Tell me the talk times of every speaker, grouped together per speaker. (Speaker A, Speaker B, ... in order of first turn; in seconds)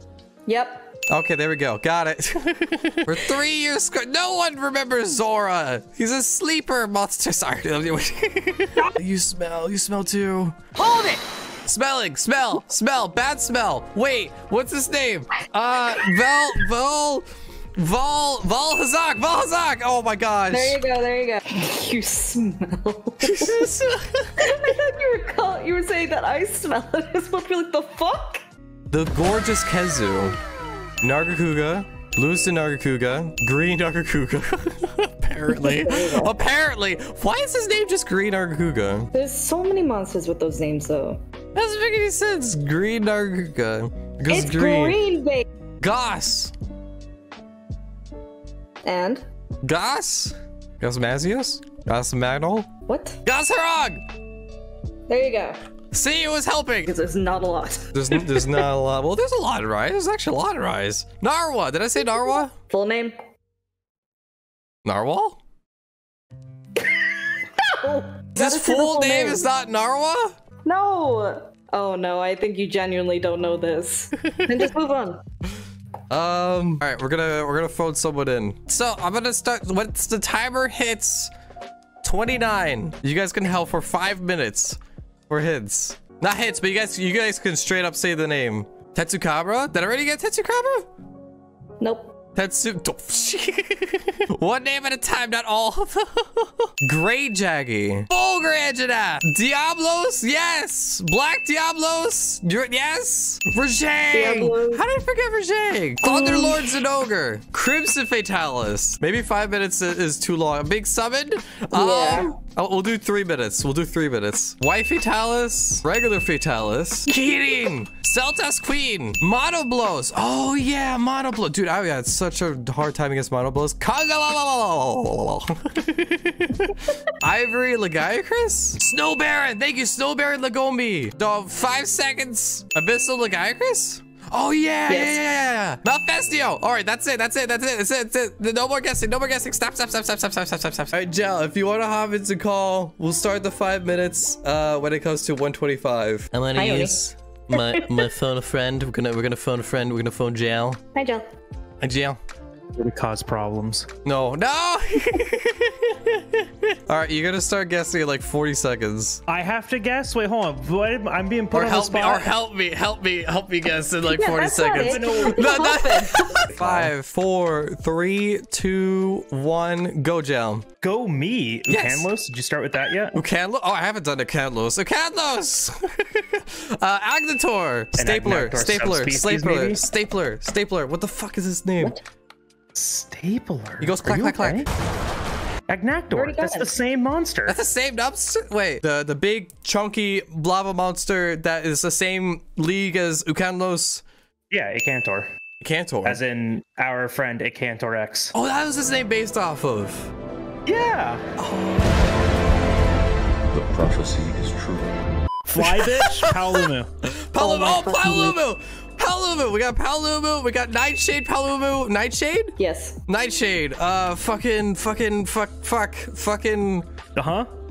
Speaker A: 0.5-0.9, 20.5-23.6, 24.4-28.4, 35.5-36.3, 39.1-41.2, 44.3-45.5, 48.8-49.2, 52.9-53.2, 55.1-55.6, 56.8-58.2, 62.7-63.2, 67.7-69.4, 70.7-75.2, 91.8-92.1, 104.1-104.8, 106.0-106.7, 111.7-112.3, 134.9-135.2, 146.6-147.0, 150.9-151.3, 164.1-166.5, 186.1-186.8, 207.4-208.4, 212.6-213.0
Speaker B: 1.1-20.8, 23.2-24.3, 28.9-30.4, 31.0-39.1, 41.5-45.0, 45.8-46.5, 49.6-52.7, 53.2-54.0, 55.9-56.9, 57.9-62.5, 64.8-65.4, 68.3-70.3, 76.1-81.3, 82.0-84.8, 85.3-90.9, 92.4-150.8, 151.8-152.2, 154.1-159.2, 161.5-170.6, 171.7-172.1, 173.1-182.0, 183.8-184.7, 187.5-194.0, 195.6-196.2, 198.3-200.1, 201.4-202.0, 205.6-212.6, 213.1-216.9
Speaker C: 152.8-153.9, 159.3-162.3, 164.8-165.6, 166.5-166.9, 170.8-173.2, 177.9-179.9, 182.8-184.7, 185.7-187.6, 194.5-195.3, 196.1-198.3, 200.7-201.2, 205.5-206.9, 217.2-217.5